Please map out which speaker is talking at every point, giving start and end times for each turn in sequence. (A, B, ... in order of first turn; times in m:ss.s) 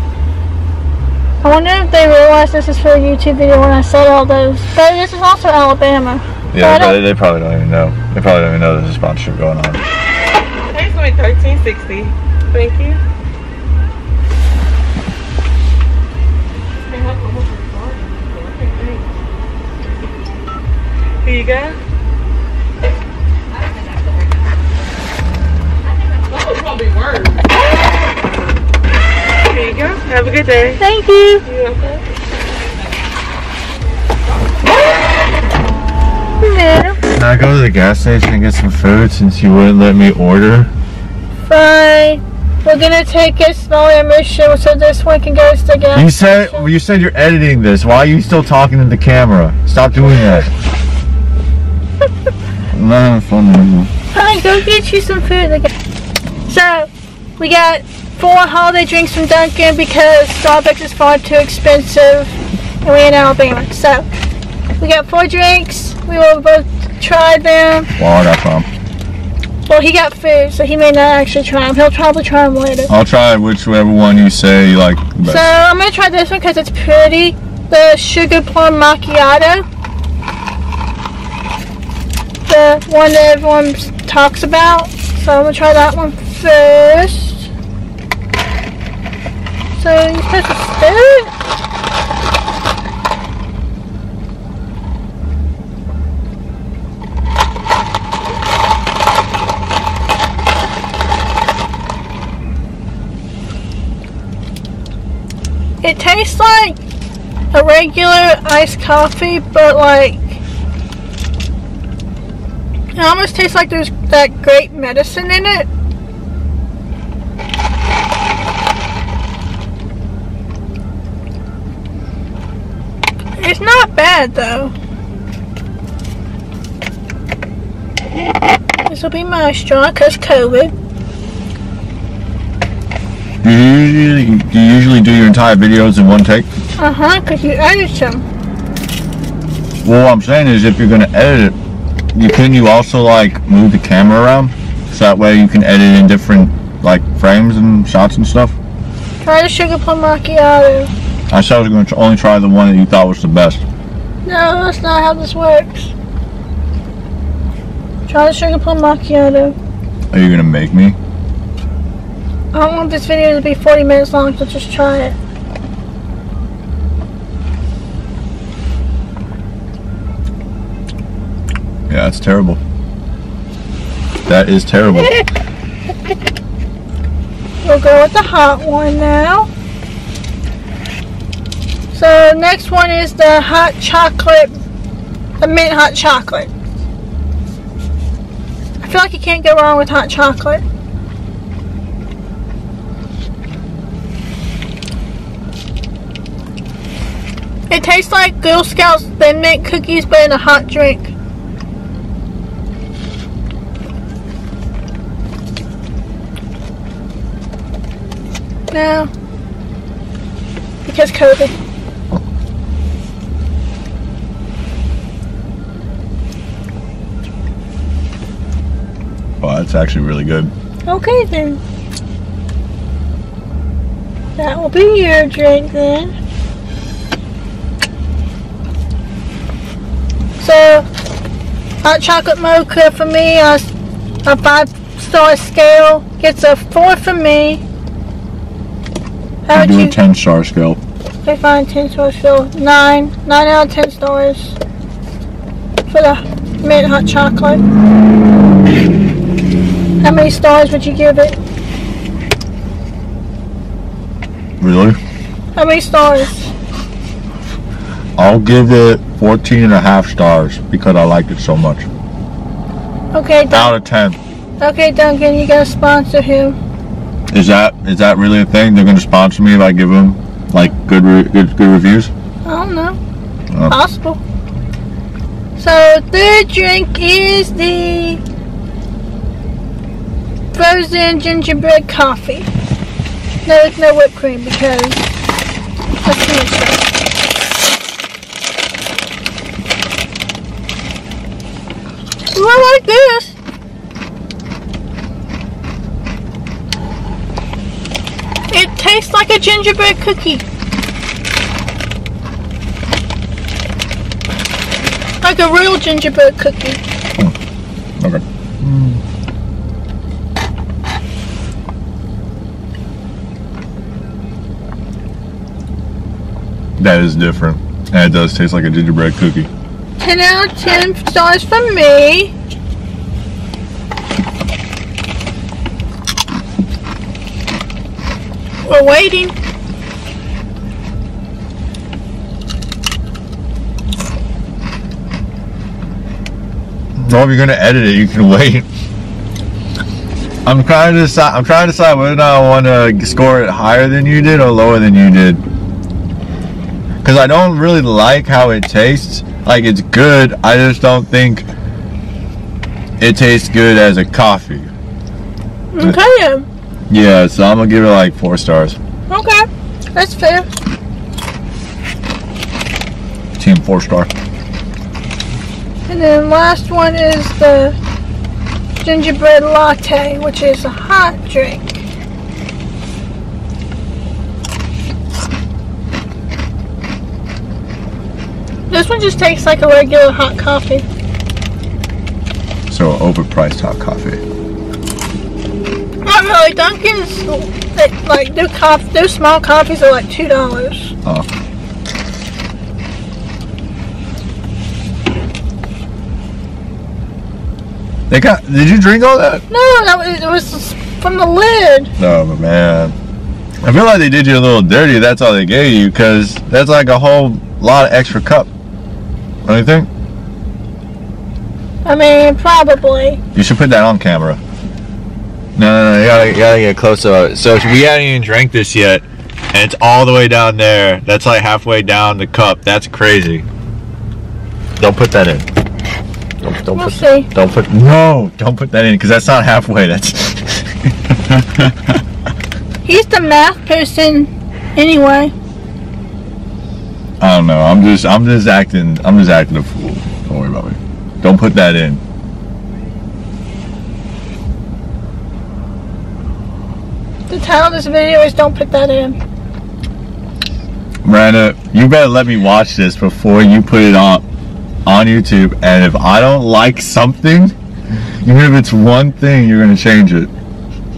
0:01.4-0:07.0 A
0:06.5-0:09.8 B
0:10.7-0:13.0 C
0:16.8-0:19.1 C
0:21.2-0:21.8 C
0:29.5-0:30.8 C
0:30.8-0:31.5 A
0:31.4-0:32.0 C
0:36.4-0:37.0 A
0:37.1-0:40.7 B
0:41.4-0:46.7 A
0:45.9-0:50.5 B
0:52.7-0:53.9 B
0:54.1-0:55.7 A
0:56.5-1:04.1 A
1:04.8-1:07.9 A
1:08.0-1:08.7 B
1:09.7-1:12.9 A
1:12.9-1:15.5 B
1:15.2-1:19.6 A
1:22.5-1:27.5 A
1:29.7-1:31.3 A
1:45.8-1:46.8 A
1:47.5-1:50.4 A
1:53.0-1:55.7 A
2:03.4-2:04.7 A
2:08.9-2:10.7 A
2:13.4-2:16.5 B
2:16.8-2:18.2 A
2:19.8-2:21.6 B
2:22.2-2:28.6 B
2:29.2-2:30.9 A
2:31.3-2:33.6 B
2:34.2-2:35.9 A
2:38.1-2:39.6 A
2:40.1-2:41.0 B
2:42.5-2:45.2 A
2:51.9-2:52.6 B
2:54.3-2:55.2 B
2:57.6-2:59.5 A
3:01.9-3:04.6 A
3:05.4-3:06.5 A
3:08.8-3:10.6 A
3:17.7-3:21.1 A
3:28.7-3:29.1 A
3:30.8-3:31.5 A
3:39.4-3:40.5 B
3:40.9-3:41.6 A
3:44.4-3:46.2 A
3:50.4-3:50.8 A
3:51.8-3:53.7 A
3:54.2-3:57.6 A
3:59.5-4:00.0 A
3:59.5-4:00.8 B
4:01.2-4:04.6 A
4:05.9-4:07.6 A
4:10.0-4:11.4 A
4:14.6-4:15.0 B
4:15.6-4:16.5 A
4:18.2-4:21.9 B
4:23.1-4:23.8 A
4:23.5-4:24.2 B
4:24.6-4:26.6 A
4:27.3-4:32.1 B
4:32.4-4:33.0 A
4:33.5-4:33.8 B
4:33.7-4:34.2 A
4:35.6-4:38.2 A
4:40.5-4:42.5 A
4:43.4-4:45.1 A
4:46.0-4:46.8 A
4:52.4-4:53.4 A
4:58.5-5:00.4 A
5:05.2-5:06.8 A
5:08.0-5:09.0 B
5:16.8-5:19.5 B
5:20.0-5:22.3 A
5:28.6-5:29.3 A
5:37.0-5:38.7 B
5:40.5-5:45.4 B
5:47.0-5:51.5 B
5:53.0-5:54.7 B
5:55.7-5:56.5 A
5:56.9-5:58.8 B
5:59.1-6:00.5 A
6:03.4-6:04.1 B
6:05.9-6:07.8 A
6:08.8-6:11.8 A
6:18.7-6:20.8 A
6:22.7-6:24.2 B
6:26.0-6:30.9 A
6:38.1-6:39.4 B
6:39.5-6:41.9 A
6:42.0-6:43.0 B
6:43.6-6:48.5 B
6:49.4-6:49.9 B
6:51.8-6:53.2 A
6:53.4-6:54.4 B
6:55.6-7:03.5 B
7:04.8-7:05.5 B
7:06.4-7:12.0 B
7:06.7-7:07.3 A
7:12.8-7:15.3 A
7:17.2-7:22.0 B
7:27.3-7:29.2 A
7:31.0-7:34.2 B
7:34.9-7:40.3 B